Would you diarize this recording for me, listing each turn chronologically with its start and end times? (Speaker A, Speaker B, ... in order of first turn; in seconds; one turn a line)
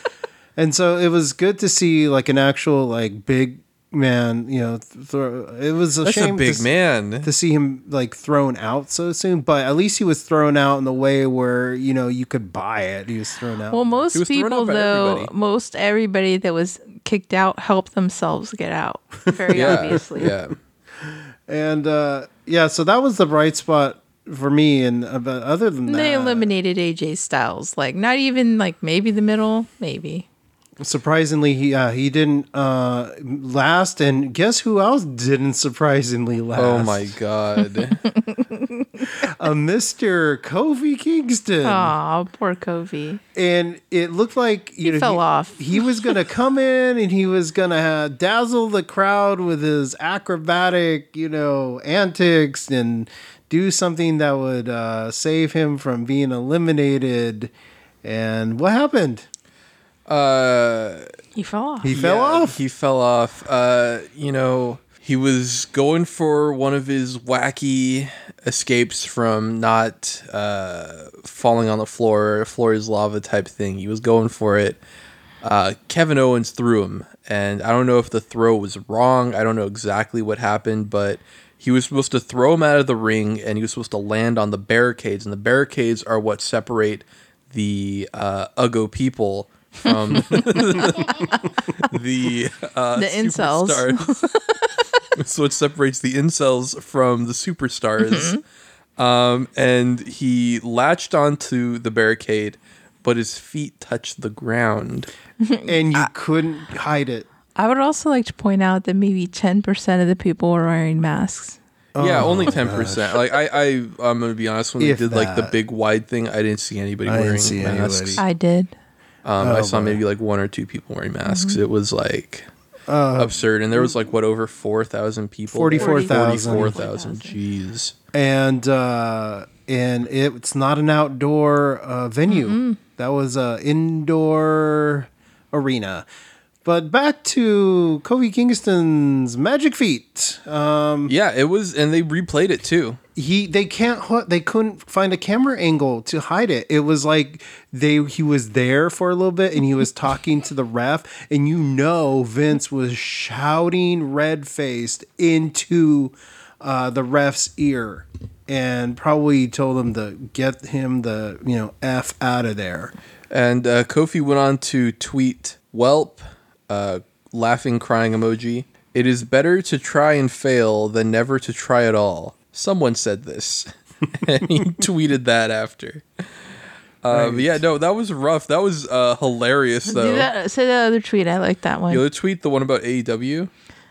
Speaker A: 0.6-6.7
Speaker B: 6.0-7.3
Speaker A: 7.2-13.9
Speaker C: 13.7-20.3
Speaker B: 14.1-15.3
Speaker A: 19.3-20.0
Speaker B: 19.5-20.6
Speaker A: 21.0-26.5
Speaker C: 25.9-30.3
Speaker A: 30.8-37.1
Speaker B: 36.6-38.1
Speaker C: 38.1-39.0
Speaker A: 39.1-42.0
Speaker C: 41.6-43.2
Speaker A: 43.4-57.5
Speaker C: 44.9-46.2
Speaker A: 58.0-59.3
Speaker B: 60.1-61.1
Speaker C: 61.4-61.9
Speaker A: 61.8-62.6
Speaker B: 61.9-74.8
Speaker B: 75.4-94.1
Speaker C: 89.8-91.9
Speaker C: 93.0-95.0
Speaker B: 95.2-98.4
Speaker C: 98.0-98.4
Speaker B: 99.0-105.1
Speaker C: 105.4-106.1
Speaker A: 105.7-107.3
Speaker C: 107.6-111.6
Speaker A: 112.0-113.2
Speaker B: 112.0-118.2
Speaker A: 114.8-115.5
Speaker A: 117.1-118.2
Speaker C: 118.2-118.7
Speaker B: 119.2-122.5
Speaker A: 119.4-120.0
Speaker C: 121.3-121.6
Speaker A: 122.9-124.0
Speaker B: 123.2-127.9
Speaker A: 125.5-126.8
Speaker C: 125.8-127.4
Speaker A: 128.1-136.1
Speaker C: 132.3-132.8
Speaker A: 136.7-141.1
Speaker B: 141.1-143.0
Speaker A: 143.2-162.9
Speaker B: 163.3-176.5
Speaker B: 177.0-180.3
Speaker A: 177.1-177.6
Speaker C: 179.9-182.0
Speaker B: 181.9-183.5